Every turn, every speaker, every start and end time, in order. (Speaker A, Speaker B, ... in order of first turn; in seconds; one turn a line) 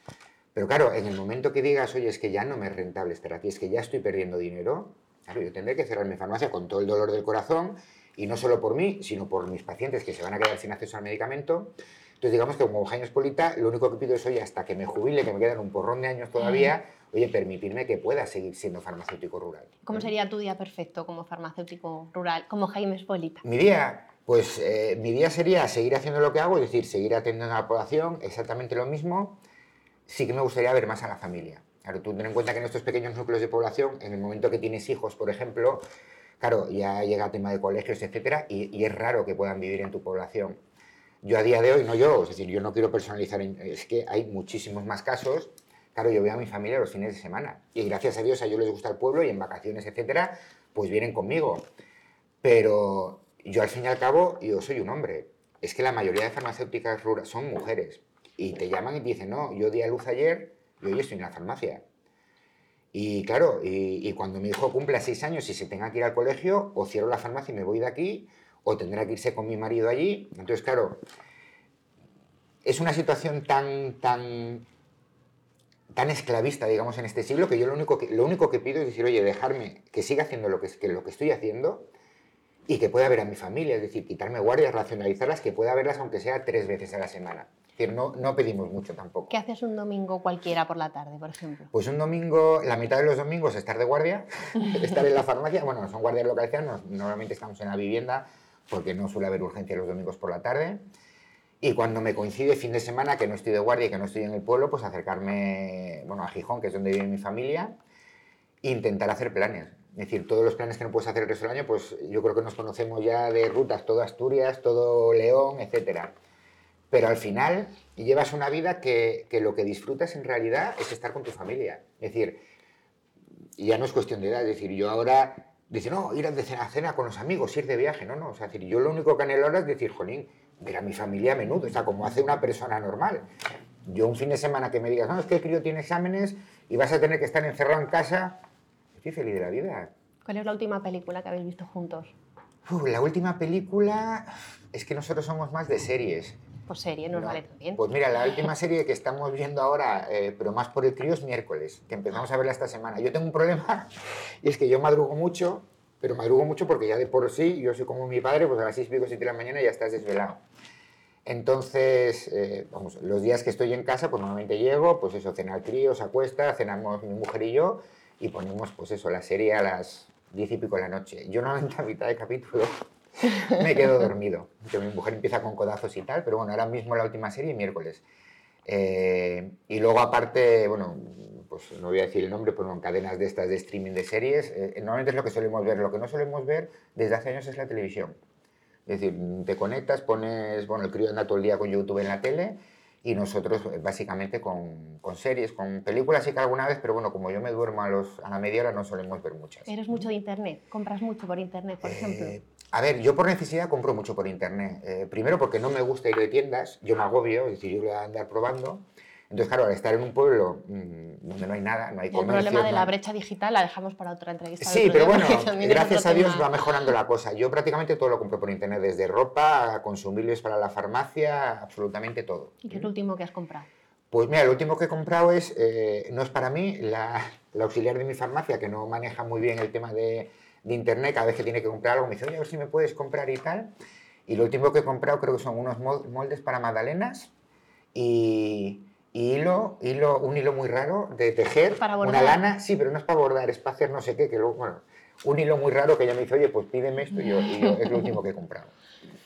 Speaker A: 0.5-20.1
Speaker B: 19.8-23.4
Speaker A: 23.4-29.4
Speaker A: 30.1-35.8
Speaker A: 36.4-40.6
Speaker A: 41.2-51.7
Speaker A: 52.4-61.8
Speaker A: 62.9-71.0
Speaker A: 72.6-74.7
Speaker A: 75.9-81.9
Speaker A: 82.7-89.3
Speaker B: 89.3-91.7
Speaker A: 91.7-100.8
Speaker A: 101.6-107.8
Speaker A: 108.6-116.1
Speaker A: 116.9-122.4
Speaker A: 123.6-133.3
Speaker A: 133.8-138.4
Speaker A: 138.9-139.9
Speaker B: 140.2-142.1
Speaker A: 142.7-146.4
Speaker B: 146.7-147.8
Speaker A: 147.1-160.4
Speaker A: 161.2-178.0
Speaker A: 178.6-188.2
Speaker A: 188.8-199.8
Speaker B: 199.7-202.4
Speaker A: 201.8-212.9
Speaker B: 212.1-216.5
Speaker A: 214.6-222.9
Speaker B: 222.6-223.7
Speaker A: 224.1-233.7
Speaker A: 234.2-237.3
Speaker A: 237.9-248.7
Speaker B: 241.7-242.4